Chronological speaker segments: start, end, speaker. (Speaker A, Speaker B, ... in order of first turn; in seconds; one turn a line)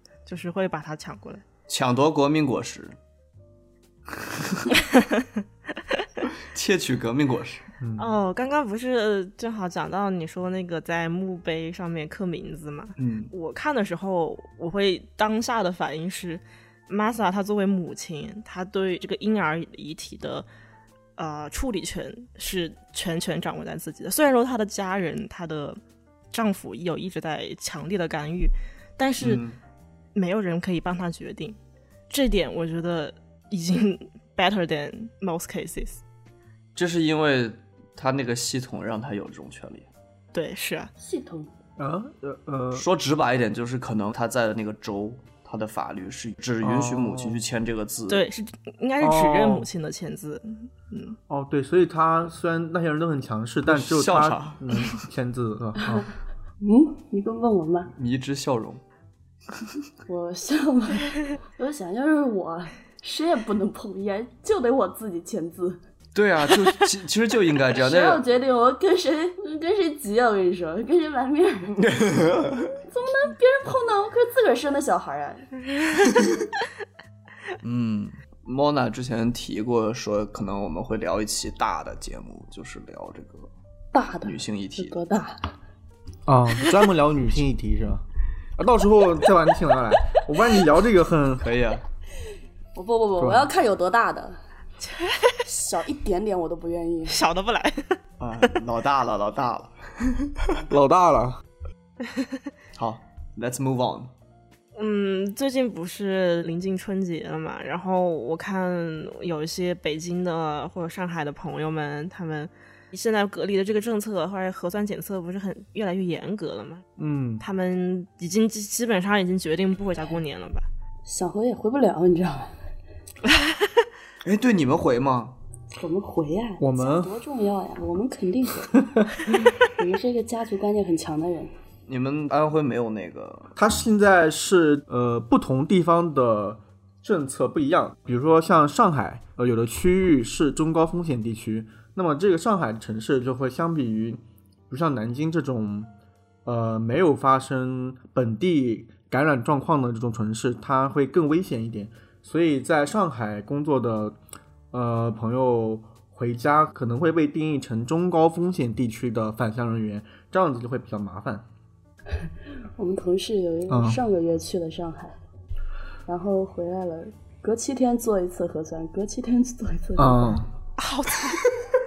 Speaker A: 0.3-1.4
Speaker B: 1.7-3.0
Speaker B: 4.1-4.7
Speaker A: 4.9-5.3
Speaker B: 6.5-7.7
Speaker C: 7.8-8.1
Speaker A: 8.0-20.5
Speaker B: 13.0-13.3
Speaker A: 21.2-25.8
Speaker A: 26.3-29.4
Speaker B: 29.2-29.6
Speaker A: 30.1-31.6
Speaker A: 32.1-36.0
Speaker B: 36.8-39.9
Speaker A: 40.3-40.9
Speaker D: 41.0-41.5
Speaker C: 41.8-42.9
Speaker B: 42.7-48.2
Speaker C: 46.6-47.4
Speaker A: 48.1-51.2
Speaker C: 49.0-49.7
Speaker C: 51.3-56.1
Speaker B: 53.7-55.0
Speaker D: 56.6-57.9
Speaker B: 58.0-58.8
Speaker D: 60.1-65.8
Speaker B: 66.1-68.2
Speaker D: 67.7-71.9
Speaker B: 71.8-72.8
Speaker D: 72.9-75.5
Speaker B: 77.6-83.5
Speaker D: 83.9-85.5
Speaker B: 84.2-85.0
Speaker C: 86.3-88.0
Speaker C: 88.6-91.4
Speaker B: 91.4-91.8
Speaker D: 92.8-94.4
Speaker C: 93.2-93.5
Speaker A: 94.9-95.4
Speaker D: 95.4-97.2
Speaker A: 97.1-98.0
Speaker B: 98.2-100.4
Speaker C: 100.7-101.4
Speaker B: 102.8-104.1
Speaker A: 104.8-116.8
Speaker C: 117.0-117.4
Speaker A: 117.4-120.7
Speaker D: 121.1-122.5
Speaker B: 124.2-125.4
Speaker D: 125.7-131.5
Speaker C: 126.6-127.2
Speaker B: 131.9-133.5
Speaker C: 133.6-145.9
Speaker C: 146.4-154.2
Speaker C: 154.7-161.4
Speaker D: 162.8-165.2
Speaker C: 163.7-164.0
Speaker D: 166.1-170.5
Speaker C: 170.0-170.5
Speaker A: 170.8-171.4